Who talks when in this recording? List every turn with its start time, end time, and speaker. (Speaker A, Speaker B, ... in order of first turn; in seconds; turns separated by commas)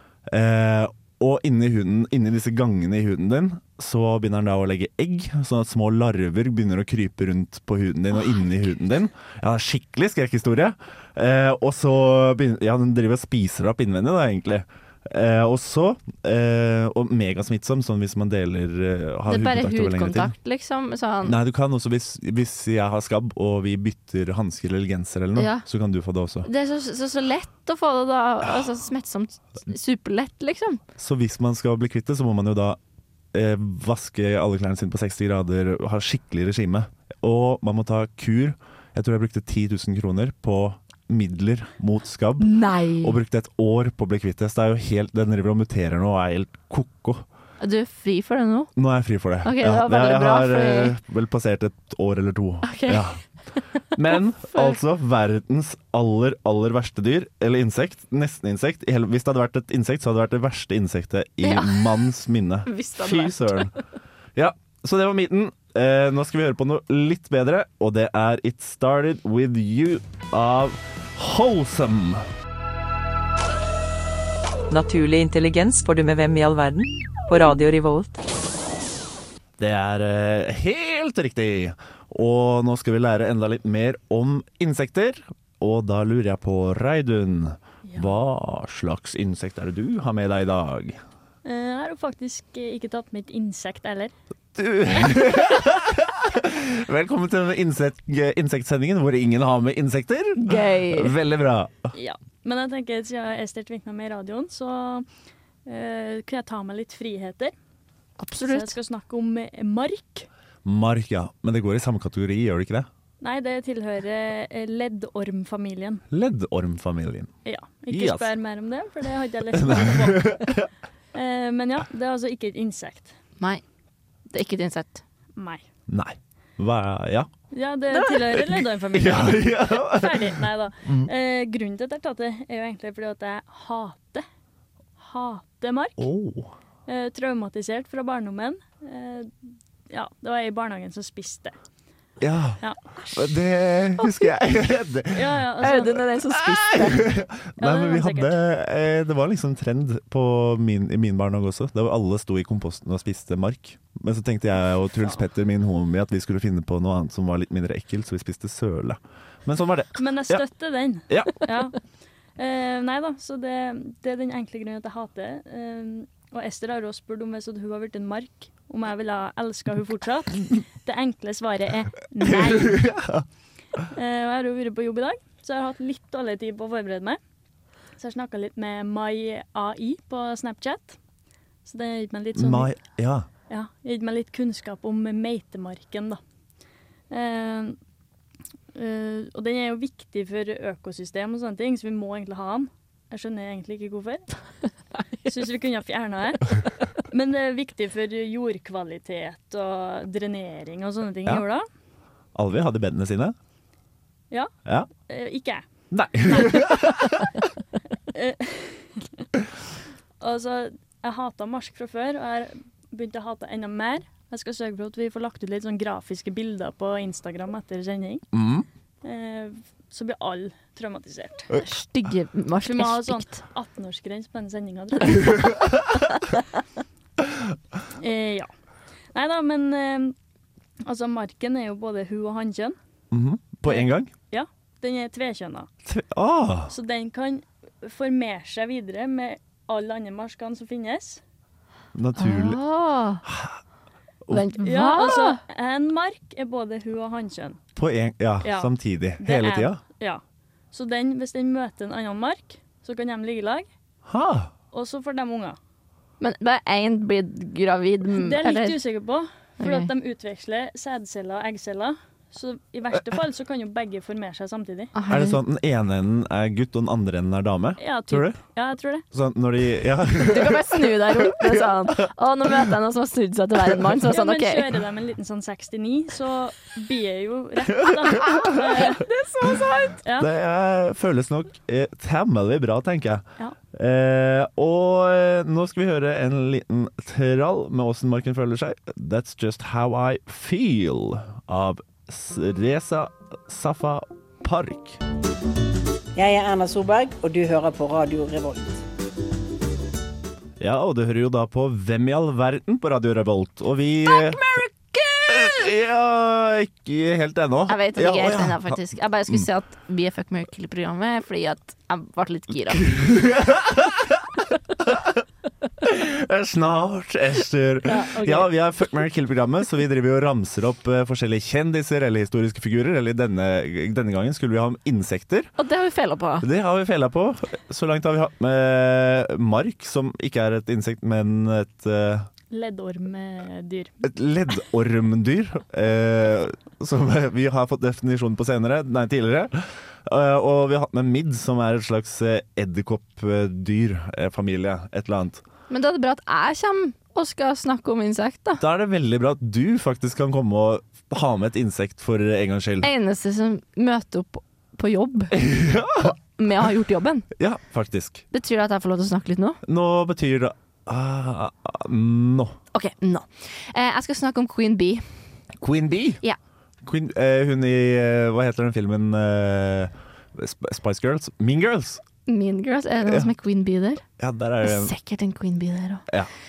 Speaker A: 0.3-20.3, Speaker B: 19.3-21.4, Speaker A: 21.2-26.5, Speaker B: 25.4-25.6, Speaker B: 26.4-30.8, Speaker A: 31.0-32.8, Speaker A: 33.3-47.2, Speaker B: 42.4-43.2, Speaker B: 47.6-48.7, Speaker A: 48.8-53.2, Speaker B: 49.4-50.9, Speaker B: 52.6-53.0, Speaker A: 53.9-63.7, Speaker B: 54.4-54.8, Speaker B: 61.4-62.1, Speaker B: 62.6-63.8, Speaker A: 64.3-72.3, Speaker C: 74.7-78.2, Speaker A: 79.6-91.0, Speaker D: 91.4-94.1, Speaker A: 94.5-101.9, Speaker B: 100.4-101.1, Speaker D: 101.9-105.1, Speaker D: 105.7-107.5, Speaker B: 108.2-108.7, Speaker D: 108.4-110.3, Speaker A: 110.6-112.9, Speaker D: 113.2-116.0, Speaker A: 116.1-117.3, Speaker D: 117.4-120.5, Speaker A: 117.9-118.3, Speaker A: 119.5-120.7, Speaker D: 121.1-123.1, Speaker B: 124.3-125.0, Speaker D: 125.4-125.6, Speaker A: 125.9-127.3, Speaker D: 127.5-134.2, Speaker A: 128.4-131.1, Speaker D: 135.0-136.0, Speaker A: 136.0-136.5, Speaker D: 136.9-139.3, Speaker D: 139.9-141.6, Speaker A: 142.2-145.4, Speaker D: 145.1-146.0, Speaker B: 145.6-147.1, Speaker A: 146.3-160.4, Speaker D: 147.6-148.3, Speaker D: 159.9-161.8, Speaker A: 161.1-161.4, Speaker D: 162.4-172.9, Speaker A: 172.2-173.2, Speaker D: 173.9-177.2, Speaker D: 178.0-181.0, Speaker D: 181.6-182.8, Speaker A: 182.3-183.3, Speaker D: 183.5-186.2, Speaker D: 187.1-187.8, Speaker D: 188.7-194.3, Speaker D: 195.2-201.6, Speaker A: 202.3-203.3, Speaker D: 205.1-205.6, Speaker A: 205.9-207.3, Speaker D: 206.2-206.8, Speaker D: 208.1-209.2, Speaker D: 210.2-218.2, Speaker A: 218.3-218.7, Speaker D: 219.0-221.5, Speaker B: 221.5-223.4, Speaker D: 222.6-225.6, Speaker D: 227.9-228.5, Speaker D: 229.1-230.1, Speaker D: 230.8-232.8, Speaker A: 233.1-234.1, Speaker D: 233.7-235.7, Speaker A: 235.8-236.7, Speaker D: 236.7-241.2, Speaker A: 241.9-242.6, Speaker B: 242.2-243.2, Speaker A: 243.2-243.6, Speaker B: 244.3-245.4, Speaker D: 244.6-247.6, Speaker A: 247.8-249.8, Speaker D: 248.4-250.2, Speaker D: 250.7-253.7, Speaker A: 254.1-254.5, Speaker D: 254.7-255.6, Speaker B: 256.2-258.8, Speaker D: 258.1-264.9, Speaker B: 259.6-259.9, Speaker B: 264.9-265.4, Speaker A: 265.1-268.4, Speaker D: 267.8-269.0, Speaker A: 269.1-271.9, Speaker B: 270.2-274.6, Speaker D: 274.1-279.0, Speaker A: 277.8-278.8, Speaker B: 278.2-280.0, Speaker D: 280.0-280.3, Speaker A: 280.2-295.0, Speaker E: 296.1-298.8, Speaker A: 300.6-304.4, Speaker B: 304.1-305.7, Speaker A: 305.3-309.5, Speaker B: 307.7-312.9, Speaker A: 312.8-314.3, Speaker A: 314.8-315.2, Speaker A: 315.8-325.5, Speaker B: 317.9-318.5, Speaker B: 325.6-326.4, Speaker A: 326.4-332.3, Speaker D: 332.5-333.9, Speaker A: 334.0-345.4, Speaker B: 345.7-348.6, Speaker A: 348.6-352.9, Speaker B: 352.8-355.4, Speaker A: 355.3-356.1, Speaker B: 356.0-357.3, Speaker A: 357.4-358.2, Speaker B: 358.3-359.6, Speaker A: 359.6-362.6, Speaker B: 362.7-365.0, Speaker A: 365.6-366.2, Speaker A: 366.8-372.0, Speaker B: 372.2-374.0, Speaker A: 374.2-374.9, Speaker B: 374.6-376.1